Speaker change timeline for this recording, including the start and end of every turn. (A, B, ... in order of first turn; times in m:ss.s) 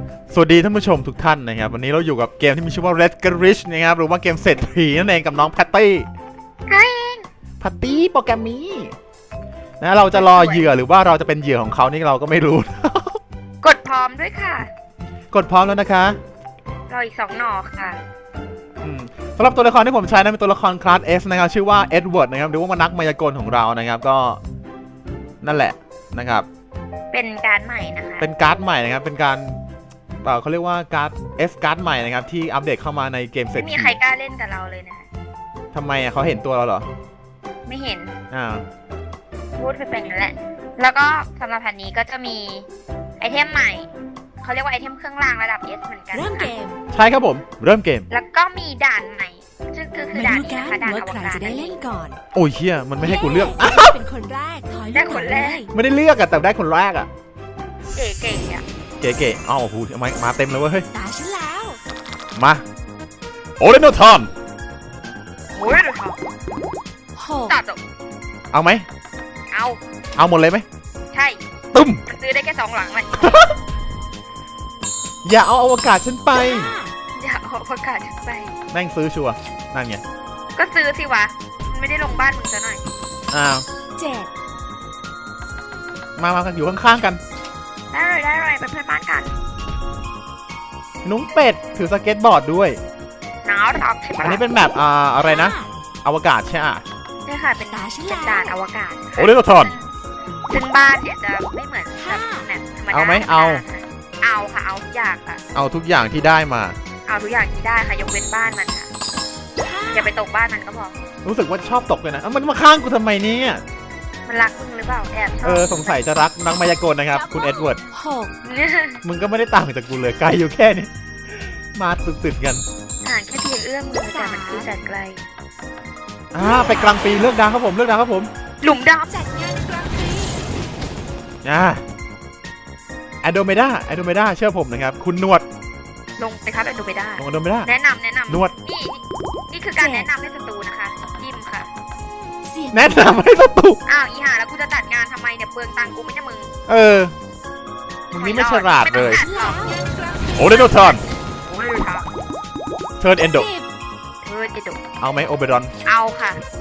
0:00.3-0:06.0 A
0:06.7-0:07.2 B
0:07.6-0:09.0 A
0:09.8-0:13.2 A
0:10.1-0:10.7 B
0:13.6-0:14.7 B
0:15.3-0:16.2 A
0:16.9-0:18.0 B
0:18.8-0:24.4 A
0:25.4-0:26.5 A
0:27.1-0:28.3 B
0:28.2-0:29.6 A
0:30.2-0:34.0 A
0:33.5-0:35.0 B
0:35.7-0:36.8 A
0:37.6-0:38.1 B
0:38.3-0:38.6 A
0:39.6-0:42.6 B
0:43.2-0:43.9 B
0:44.4-0:46.5 B
0:46.1-0:46.8 C
0:46.9-0:48.1 A
0:48.1-0:51.8 B
0:50.1-0:52.2 C
0:52.3-0:54.0 A
0:53.0-0:55.7 C
0:54.9-0:55.7 B
0:55.7-0:57.1 A
0:58.0-0:58.6 B
0:59.0-1:00.8 A
1:00.9-1:01.8 C
1:02.4-1:02.6 A
1:03.6-1:04.3 A
1:05.6-1:06.2 B
1:07.1-1:07.6 C
1:07.4-1:07.8 B
1:08.5-1:08.8 A
1:09.5-1:09.8 B
1:10.2-1:10.6 A
1:11.1-1:11.4 B
1:11.7-1:12.0 A
1:12.0-1:13.5 B
1:13.2-1:13.5 A
1:15.2-1:16.7 A
1:16.3-1:16.9 C
1:17.1-1:18.5 B
1:18.7-1:20.0 A
1:20.6-1:22.8 B
1:23.3-1:23.6 A
1:24.0-1:24.3 C
1:26.2-1:27.2 A
1:27.9-1:29.3 B
1:31.0-1:32.8 A
1:33.4-1:34.4 B
1:34.2-1:36.8 A
1:35.2-1:35.7 C
1:37.2-1:39.9 B
1:37.7-1:38.5 C
1:39.2-1:39.7 A
1:40.5-1:45.4 B
1:42.0-1:42.5 C
1:42.9-1:43.6 A
1:45.5-1:46.8 A
1:47.0-1:48.9 B
1:49.6-1:50.1 C
1:49.9-1:51.0 B
1:51.2-1:53.6 A
1:54.3-1:56.0 B
1:55.4-1:57.8 A
1:57.1-1:58.3 C
1:58.4-1:59.0 B
1:59.0-2:02.6 A
2:03.0-2:05.2 B
2:03.9-2:04.7 C
2:06.3-2:08.3 A
2:06.4-2:07.3 C
2:08.6-2:09.1 B
2:09.1-2:10.5 C
2:11.4-2:11.8 A
2:13.2-2:15.4 A
2:16.2-2:21.7 B
2:17.2-2:17.7 A
2:18.3-2:18.5 A
2:19.8-2:20.1 C
2:22.4-2:23.2 C
2:22.7-2:23.8 A
2:23.9-2:26.5 B
2:26.7-2:27.1 A
2:28.1-2:29.8 B
2:28.1-2:29.2 A
2:28.9-2:31.0 C
2:30.3-2:31.0 A
2:31.3-2:32.1 B
2:33.0-2:33.5 A
2:33.3-2:33.7 C
2:34.2-2:34.8 B
2:35.0-2:35.7 A
2:35.8-2:36.4 B